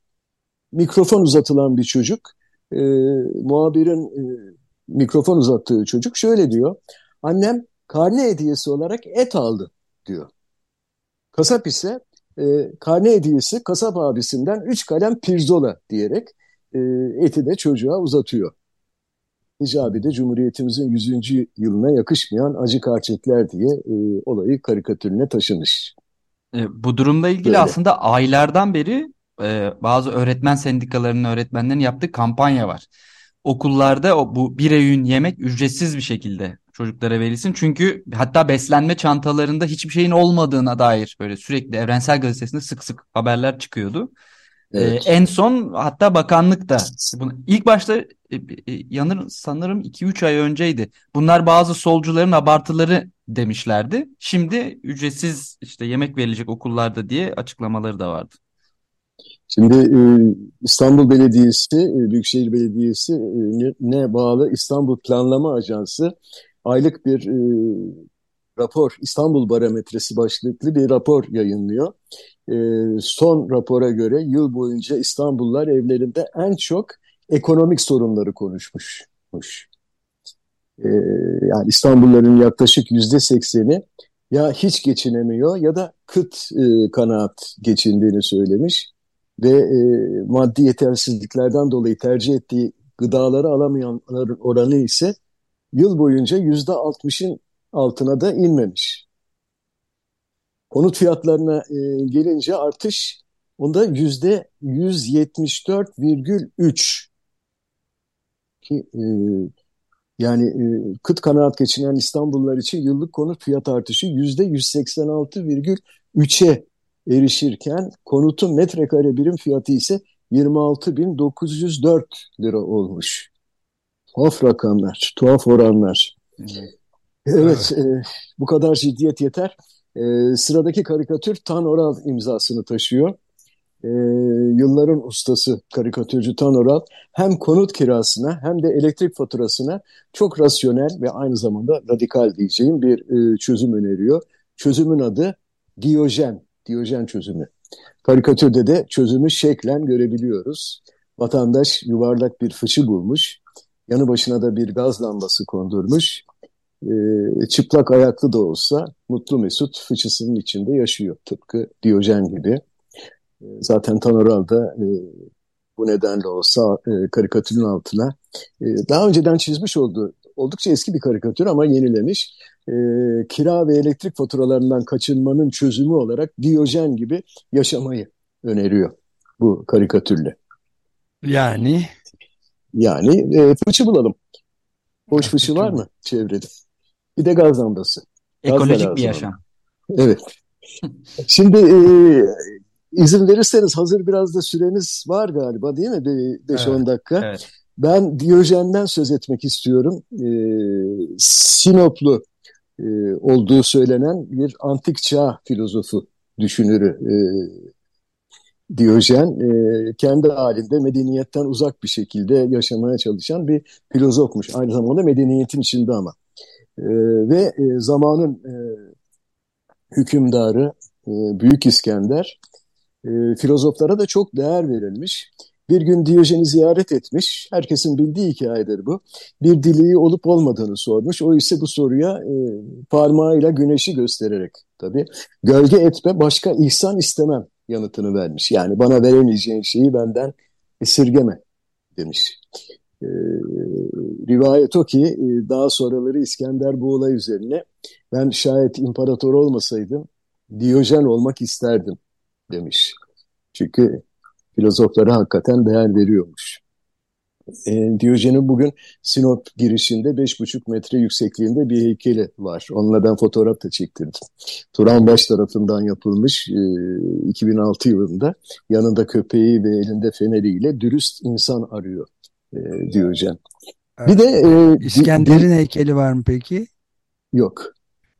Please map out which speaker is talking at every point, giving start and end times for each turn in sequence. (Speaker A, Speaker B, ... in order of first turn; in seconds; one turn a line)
Speaker A: 0.7-10.3
Speaker A: 11.3-18.5
Speaker A: 19.6-25.9
Speaker B: 26.5-32.9
Speaker A: 27.4-27.7
Speaker B: 33.4-44.1
Speaker A: 44.7-45.1
Speaker B: 44.8-58.4
Speaker A: 59.5-66.1
Speaker A: 66.6-68.0
Speaker A: 68.5-71.9
Speaker A: 72.5-79.7
Speaker A: 80.8-95.1
Speaker A: 95.7-99.0
Speaker A: 100.7-107.1
Speaker A: 108.7-109.5
Speaker A: 110.2-123.3
Speaker A: 124.2-126.1
Speaker B: 126.4-126.7
Speaker A: 127.3-133.2
Speaker C: 127.4-127.7
Speaker A: 133.8-147.5
Speaker A: 148.0-156.2
Speaker A: 156.8-162.6
Speaker A: 163.4-165.2
Speaker A: 165.8-180.3
Speaker C: 181.2-181.9
Speaker A: 182.8-184.1
Speaker A: 185.1-186.5
Speaker C: 185.1-185.8
Speaker A: 187.2-189.3
Speaker B: 188.4-189.3
Speaker A: 189.9-190.2
Speaker A: 191.2-202.2
Speaker A: 202.8-207.7
Speaker A: 208.7-216.1
Speaker A: 216.8-218.8
Speaker A: 219.9-222.4
Speaker A: 223.0-241.4
Speaker A: 241.9-242.4
Speaker A: 243.0-252.0
Speaker A: 252.5-252.9
Speaker A: 253.5-254.0
Speaker A: 254.6-256.6
Speaker A: 257.6-264.2
Speaker A: 264.7-273.4
Speaker C: 274.0-276.7
Speaker A: 274.1-275.4
Speaker A: 277.3-277.7